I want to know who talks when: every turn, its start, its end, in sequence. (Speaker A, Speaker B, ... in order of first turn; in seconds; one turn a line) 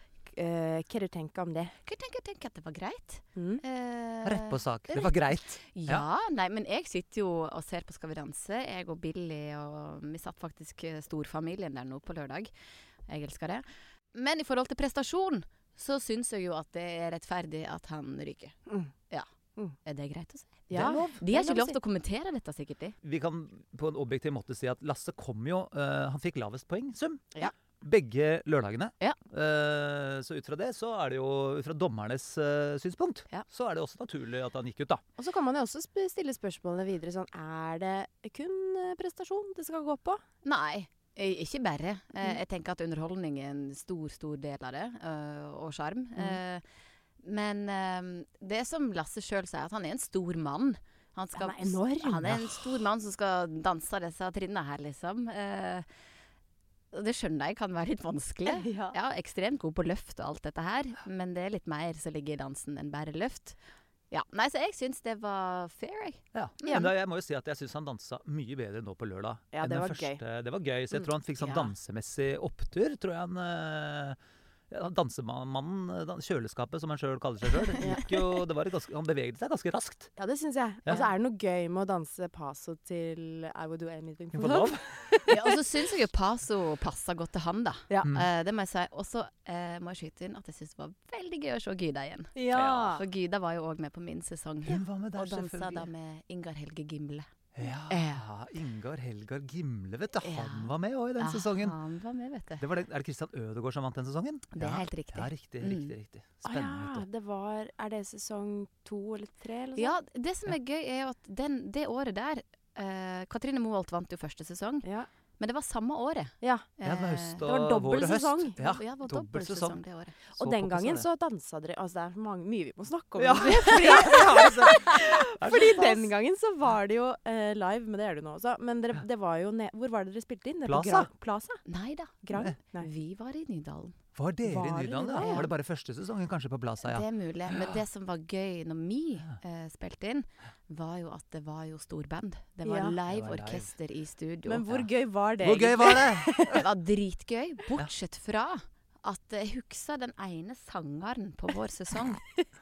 Speaker A: 0.3-1.7
Speaker B: 1.8-12.5
Speaker A: 3.4-3.6
Speaker C: 4.2-6.0
Speaker B: 13.1-18.6
Speaker A: 18.7-18.9
Speaker B: 19.8-22.9
Speaker A: 20.7-21.8
Speaker C: 20.7-21.2
Speaker C: 23.0-35.0
Speaker A: 35.2-40.2
Speaker B: 40.4-46.6
Speaker B: 47.2-55.8
Speaker A: 51.4-52.3
Speaker C: 52.2-52.6
Speaker B: 56.9-63.6
Speaker A: 58.5-58.9
Speaker B: 64.1-66.8
Speaker C: 66.3-74.2
Speaker A: 69.5-70.2
Speaker B: 71.4-71.7
Speaker C: 74.7-80.1
Speaker A: 80.2-85.5
Speaker C: 84.3-84.9
Speaker B: 85.3-97.3
Speaker A: 92.3-93.0
Speaker C: 92.5-92.9
Speaker C: 94.6-95.9
Speaker C: 97.5-101.8
Speaker B: 97.9-98.2
Speaker B: 100.2-102.6
Speaker C: 102.6-107.0
Speaker B: 104.5-105.9
Speaker A: 106.4-109.9
Speaker B: 109.8-114.8
Speaker A: 114.8-115.1
Speaker B: 115.4-117.4
Speaker A: 116.4-116.7
Speaker C: 116.8-119.8
Speaker A: 117.4-118.5
Speaker B: 118.6-120.2
Speaker A: 120.3-131.6
Speaker C: 120.4-121.0
Speaker C: 123.2-126.1
Speaker B: 123.7-124.1
Speaker C: 130.7-131.1
Speaker B: 131.7-134.0
Speaker A: 132.2-132.9
Speaker C: 134.1-137.8
Speaker A: 134.4-135.5
Speaker B: 135.2-135.5
Speaker B: 136.8-144.6
Speaker A: 142.6-142.9
Speaker C: 143.1-143.7
Speaker A: 144.4-146.6
Speaker C: 145.4-146.5
Speaker B: 146.5-152.3